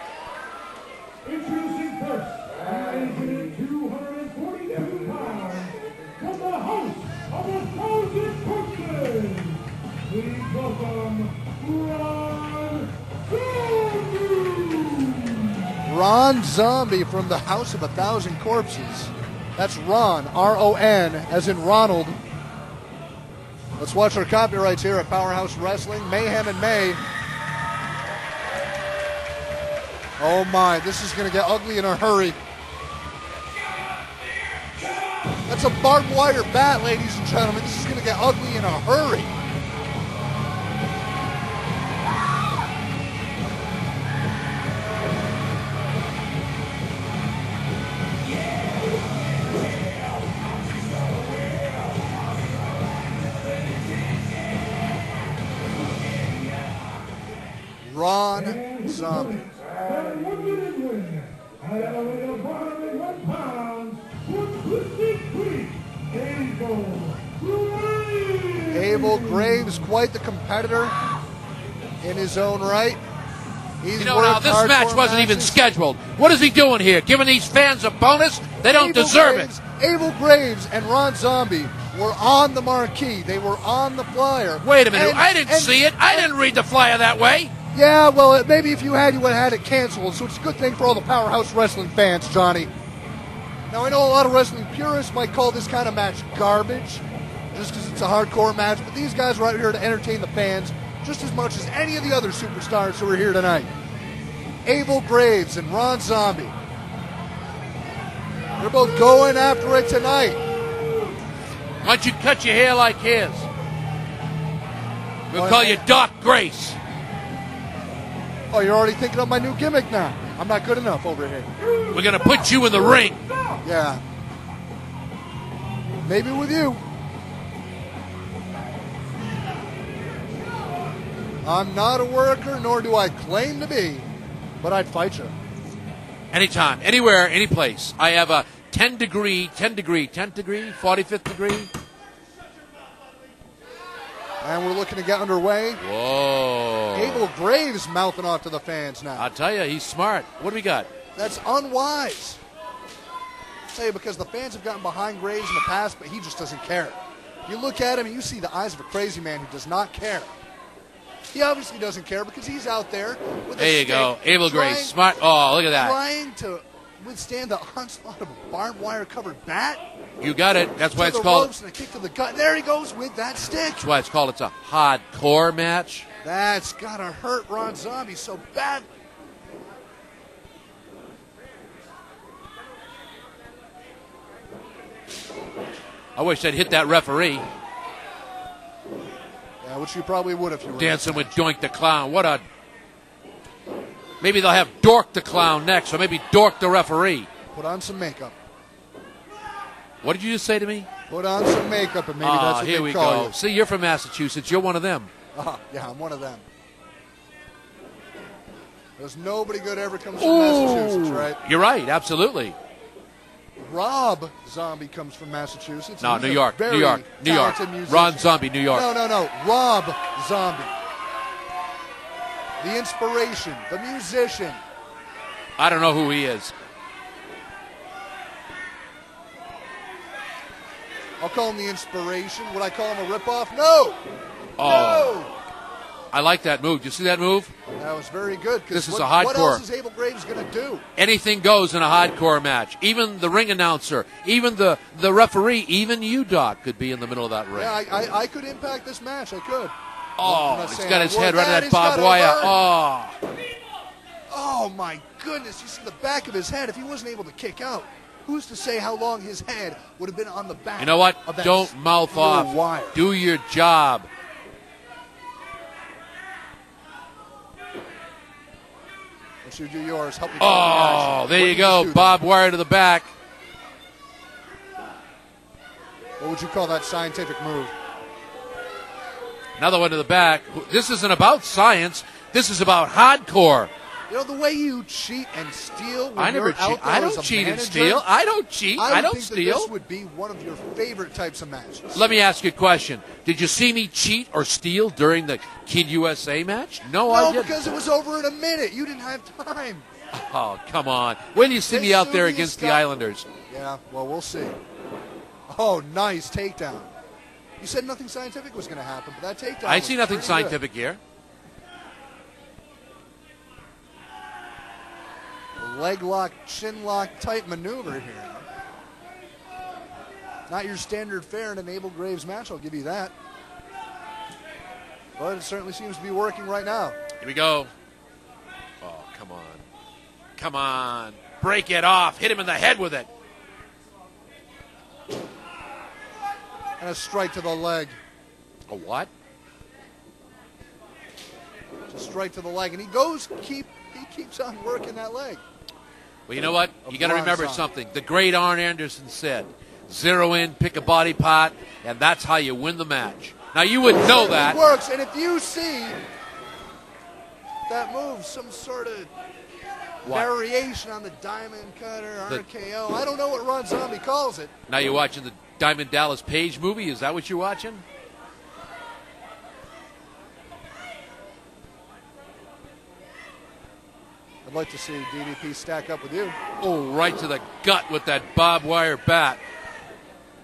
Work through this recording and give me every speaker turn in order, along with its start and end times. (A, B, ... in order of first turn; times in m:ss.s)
0:01.3-0:09.6 A
0:10.1-0:12.8 A
0:13.5-0:14.4 A
0:15.8-0:22.2 B
0:23.8-0:27.0 B
0:30.2-0:32.4 B
0:35.5-0:39.3 B
0:57.8-0:59.6 B
0:59.8-1:01.2 A
1:01.8-1:05.5 A
1:06.1-1:07.1 A
1:08.3-1:08.6 A
1:08.7-1:11.0 B
1:12.0-1:13.0 B
1:13.8-1:15.7 B
1:14.0-1:19.5 C
1:18.6-1:26.3 B
1:24.6-1:27.5 C
1:27.7-1:32.7 B
1:33.7-1:43.7 B
1:44.7-1:46.5 B
1:48.6-1:50.4 B
1:51.8-1:53.5 C
1:55.3-1:56.8 C
1:55.3-1:55.9 B
1:58.5-2:01.5 B
2:01.9-2:03.2 C
2:03.6-2:04.0 B
2:06.0-2:06.8 B
2:11.4-2:14.1 B
2:14.6-2:15.4 B
2:16.3-2:21.7 C
2:24.4-2:25.8 B
2:25.8-2:27.3 C
2:27.0-2:29.3 B
2:29.2-2:30.9 C
2:31.2-2:32.4 B
2:33.7-2:40.3 B
2:41.3-2:45.0 B
2:43.6-2:46.0 C
2:45.7-2:49.8 B
2:50.2-2:51.5 C
2:50.9-2:53.8 B
2:53.6-2:56.1 C
2:56.2-2:58.9 B
3:06.2-3:07.5 C
3:09.6-3:11.4 B
3:10.8-3:12.4 C
3:14.2-3:17.3 C
3:17.5-3:18.4 B
3:20.0-3:20.9 C
3:21.1-3:23.3 B
3:22.2-3:25.1 C
3:25.3-3:26.4 B
3:29.0-3:31.4 B
3:30.2-3:32.6 C
3:33.6-3:40.7 B
3:36.0-3:38.9 C
3:42.6-3:44.6 B
3:45.6-3:46.5 C
3:51.2-3:54.0 B
3:54.6-3:55.2 C
3:54.6-3:55.3 B
3:56.1-3:57.5 C
3:57.8-4:00.8 B
3:58.7-3:59.6 C
4:01.0-4:07.8 C
4:07.5-4:12.6 B
4:10.2-4:13.2 C
4:14.3-4:23.0 B
4:20.8-4:24.1 C
4:29.4-4:32.2 B
4:30.4-4:33.1 C
4:36.2-4:37.7 B
4:39.6-4:43.7 C
4:44.1-4:48.1 B
4:46.2-4:49.7 C
4:48.8-4:52.1 B
4:51.9-4:57.6 C
4:57.1-4:59.9 B
5:00.1-5:03.3 C
5:01.7-5:02.8 B
5:03.5-5:04.6 B
5:05.5-5:06.9 B
5:07.6-5:10.6 B
5:09.6-5:11.0 C
5:15.6-5:18.5 B
5:20.5-5:23.1 B
5:25.2-5:27.0 B
5:27.2-5:27.7 C
5:28.8-5:29.6 C
5:30.4-5:33.1 C
5:36.8-5:38.0 B
5:38.7-5:39.1 C
5:41.9-5:45.4 B
5:46.3-5:54.6 C
5:46.8-5:47.7 B
5:53.9-5:56.0 B
5:57.7-5:59.1 B
6:00.0-6:04.5 B
6:00.0-6:00.3 C
6:04.7-6:07.8 C
6:14.4-6:16.4 B
6:16.6-6:19.4 C